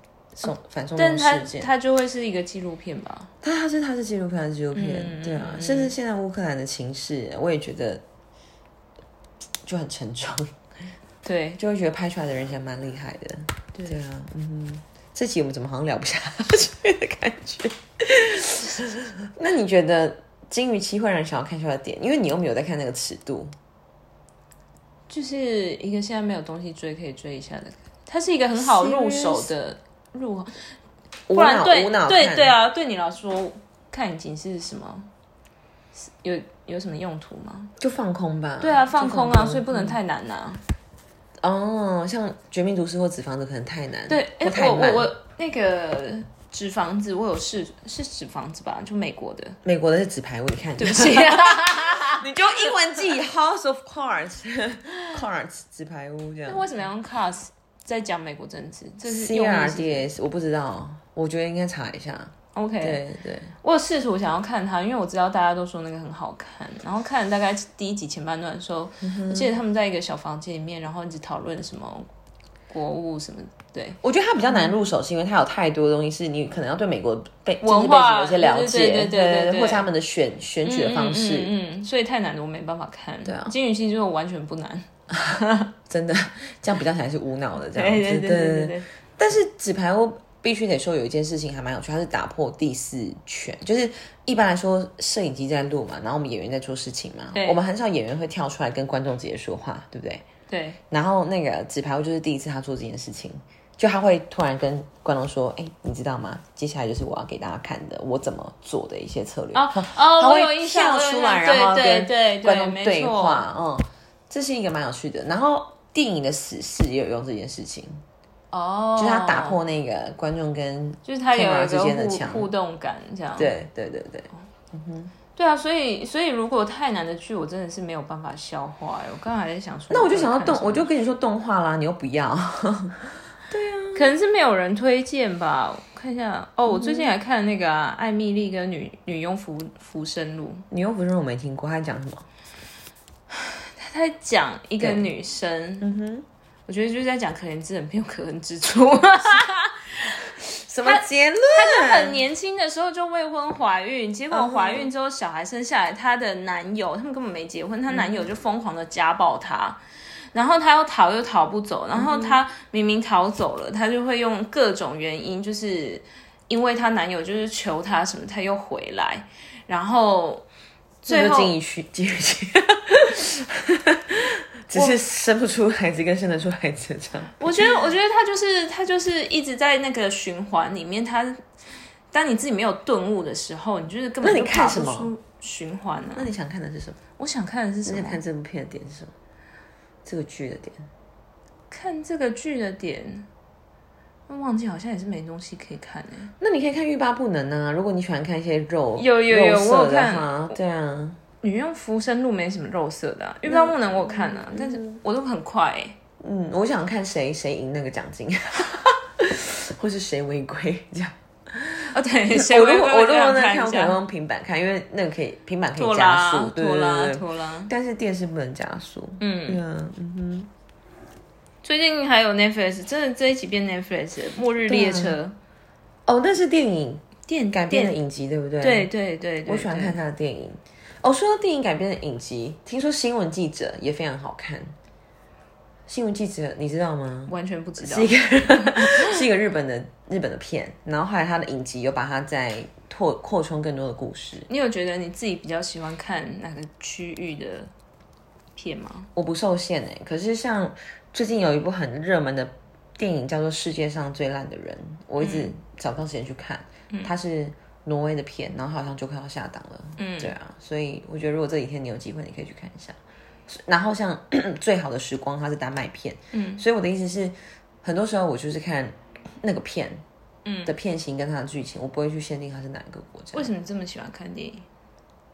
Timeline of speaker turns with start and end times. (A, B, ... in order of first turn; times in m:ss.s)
0:00.4-0:01.7 A
0:00.4-0:03.3 B
0:03.4-0:08.0 A
0:04.7-0:06.0 B
0:09.7-0:10.5 A
0:11.2-0:11.6 B
0:11.6-0:23.5 A
0:25.1-0:30.6 B
0:28.6-0:29.5 A
0:31.3-0:32.6 A
0:31.3-0:35.1 B
0:36.0-0:37.7 B
0:37.8-0:40.0 A
0:38.6-0:40.6 B
0:41.4-0:45.1 A
0:44.1-0:49.6 B
0:49.6-0:56.8 A
0:50.8-0:52.5 B
0:56.5-1:00.1 B
0:59.1-1:03.5 A
1:02.6-1:03.0 B
1:03.6-1:12.1 B
1:09.0-1:09.5 A
1:12.7-1:14.7 B
1:14.0-1:21.5 A
1:17.6-1:19.9 B
1:20.6-1:25.7 B
1:23.2-1:23.5 A
1:25.9-1:40.2 A
1:27.7-1:28.9 B
1:37.3-1:37.6 B
1:40.5-1:40.8 B
1:40.9-1:58.0 A
1:49.5-1:53.5 B
1:58.5-1:59.6 B
1:59.0-2:02.5 A
2:01.0-2:03.6 B
2:03.4-2:05.1 A
2:05.4-2:10.9 B
2:09.9-2:14.1 A
2:14.0-2:20.7 B
2:16.7-2:17.1 A
2:20.7-2:22.3 A
2:23.3-2:25.9 B
2:24.8-2:25.1 A
2:25.8-2:26.3 A
2:26.7-2:30.3 B
2:30.6-2:32.2 A
2:30.8-2:39.8 B
2:34.3-2:34.9 A
2:37.9-2:38.3 A
2:40.3-2:50.4 B
2:41.9-2:42.4 A
2:51.0-2:51.6 B
2:51.1-2:57.8 A
2:57.4-3:01.4 B
3:02.1-3:06.3 B
3:04.2-3:05.1 A
3:06.2-3:07.0 A
3:07.2-3:08.2 B
3:07.8-3:09.1 A
3:10.0-3:10.9 A
3:11.7-3:13.3 B
3:14.3-3:16.3 B
3:16.4-3:21.2 A
3:19.0-3:20.6 B
3:21.4-3:26.0 B
3:23.5-3:25.0 A
3:26.2-3:40.5 A
3:31.9-3:34.0 B
3:35.8-3:37.7 B
3:39.2-3:39.6 B
3:41.6-3:45.4 B
3:44.7-3:45.2 A
3:46.1-3:48.9 A
3:47.3-3:48.0 B
3:48.6-3:50.0 B
3:49.4-3:54.8 A
3:55.9-4:04.5 A
3:57.3-3:59.2 B
4:04.5-4:07.7 B
4:08.6-4:09.1 B
4:09.2-4:30.0 A
4:15.2-4:15.5 B
4:20.0-4:20.3 B
4:26.3-4:26.6 B
4:30.4-4:30.8 B
4:30.7-4:33.5 A
4:33.3-4:34.7 B